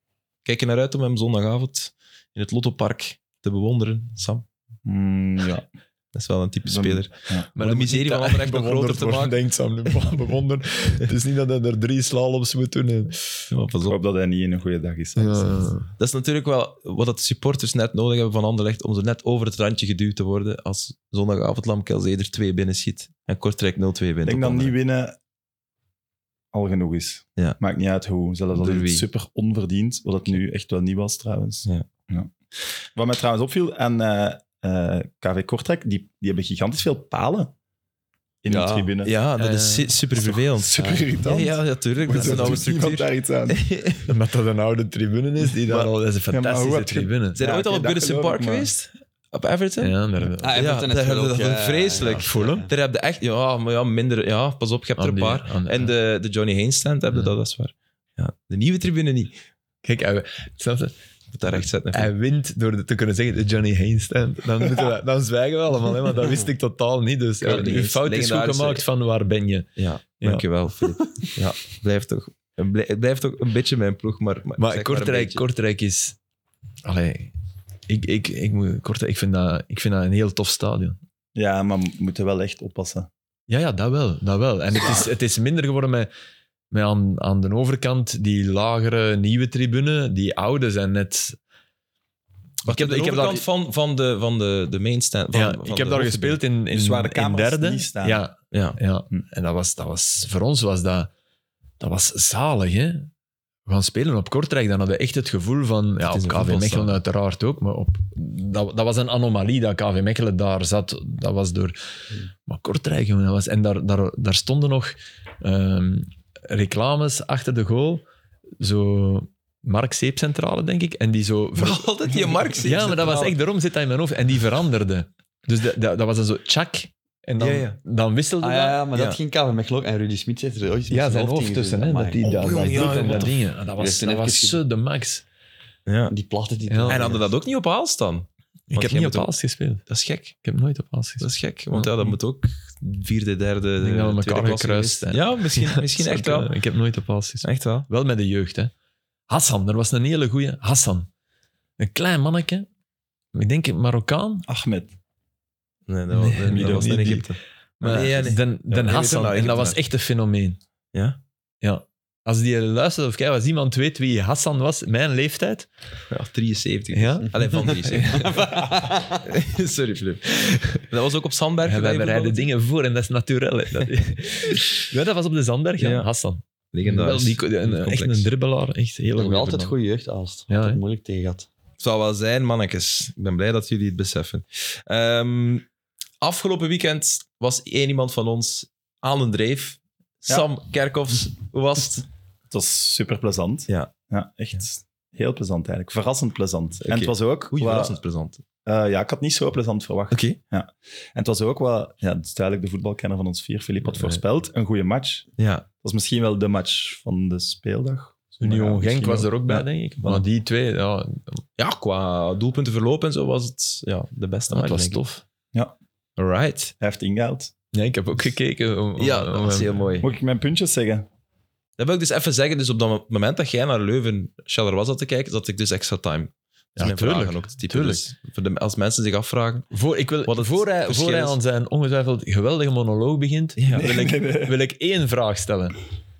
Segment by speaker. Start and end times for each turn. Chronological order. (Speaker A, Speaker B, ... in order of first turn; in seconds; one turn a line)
Speaker A: 0.5-4.5
Speaker B: 4.8-5.7
Speaker A: 6.2-9.4
Speaker B: 6.7-7.5
Speaker C: 7.6-13.5
Speaker A: 13.5-13.9
Speaker B: 13.8-15.7
Speaker C: 15.2-15.9
Speaker A: 16.0-24.8
Speaker B: 24.2-25.2
Speaker B: 26.5-32.3
Speaker A: 28.5-29.1
Speaker B: 32.8-37.5
Speaker B: 38.4-39.1
Speaker D: 38.5-38.9
Speaker A: 39.0-44.1
Speaker C: 39.4-39.9
Speaker B: 40.2-43.6
Speaker C: 44.1-47.4
Speaker B: 45.7-48.7
Speaker A: 47.4-50.0
Speaker C: 49.8-50.6
Speaker D: 50.4-52.7
Speaker A: 50.5-59.4
Speaker C: 52.1-52.7
Speaker C: 55.0-55.9
Speaker C: 59.8-61.0
Speaker A: 61.3-62.1
Speaker C: 61.5-69.7
Speaker A: 67.4-68.9
Speaker A: 69.8-75.4
Speaker C: 70.2-70.5
Speaker C: 74.6-76.2
Speaker C: 76.8-77.3
Speaker C: 77.9-81.0
Speaker B: 81.3-83.1
Speaker C: 83.5-86.1
Speaker C: 86.7-91.4
Speaker A: 92.7-96.4
Speaker C: 92.7-93.4
Speaker C: 95.3-101.1
Speaker B: 96.7-98.2
Speaker A: 98.5-98.8
Speaker C: 101.8-103.1
Speaker C: 103.7-111.8
Speaker A: 106.1-107.0
Speaker C: 112.5-118.0
Speaker C: 118.6-121.8
Speaker A: 121.6-123.4
Speaker C: 122.6-128.8
Speaker A: 127.4-127.8
Speaker D: 128.4-134.6
Speaker A: 128.9-129.2
Speaker C: 130.9-135.2
Speaker A: 132.2-133.3
Speaker A: 135.9-136.1
Speaker D: 136.1-137.3
Speaker C: 136.7-137.0
Speaker A: 136.9-139.3
Speaker C: 138.7-139.9
Speaker A: 139.9-140.4
Speaker C: 140.4-142.2
Speaker A: 141.2-146.5
Speaker C: 143.8-148.7
Speaker A: 147.4-147.9
Speaker C: 149.3-151.1
Speaker C: 151.8-152.7
Speaker C: 153.3-154.5
Speaker B: 154.5-154.9
Speaker A: 155.9-159.8
Speaker C: 156.1-160.6
Speaker B: 156.6-157.0
Speaker A: 160.9-161.2
Speaker C: 161.6-165.7
Speaker A: 166.1-172.5
Speaker C: 166.9-168.4
Speaker D: 168.1-169.2
Speaker C: 170.3-170.8
Speaker C: 171.6-179.8
Speaker A: 175.8-176.1
Speaker A: 176.7-178.3
Speaker D: 179.2-181.5
Speaker C: 180.5-180.8
Speaker A: 181.8-185.7
Speaker A: 186.2-192.1
Speaker B: 192.5-198.0
Speaker A: 196.9-198.4
Speaker B: 198.7-205.3
Speaker A: 200.1-200.4
Speaker C: 203.8-204.2
Speaker A: 205.4-205.7
Speaker B: 205.8-210.2
Speaker C: 208.4-211.4
Speaker A: 211.6-215.0
Speaker C: 214.5-215.2
Speaker A: 216.2-216.7
Speaker B: 216.8-217.5
Speaker C: 217.7-219.8
Speaker A: 219.0-220.1
Speaker B: 220.0-221.1
Speaker A: 221.8-229.7
Speaker C: 226.8-228.1
Speaker C: 229.7-235.8
Speaker A: 230.2-231.4
Speaker A: 233.6-233.9
Speaker B: 233.7-234.6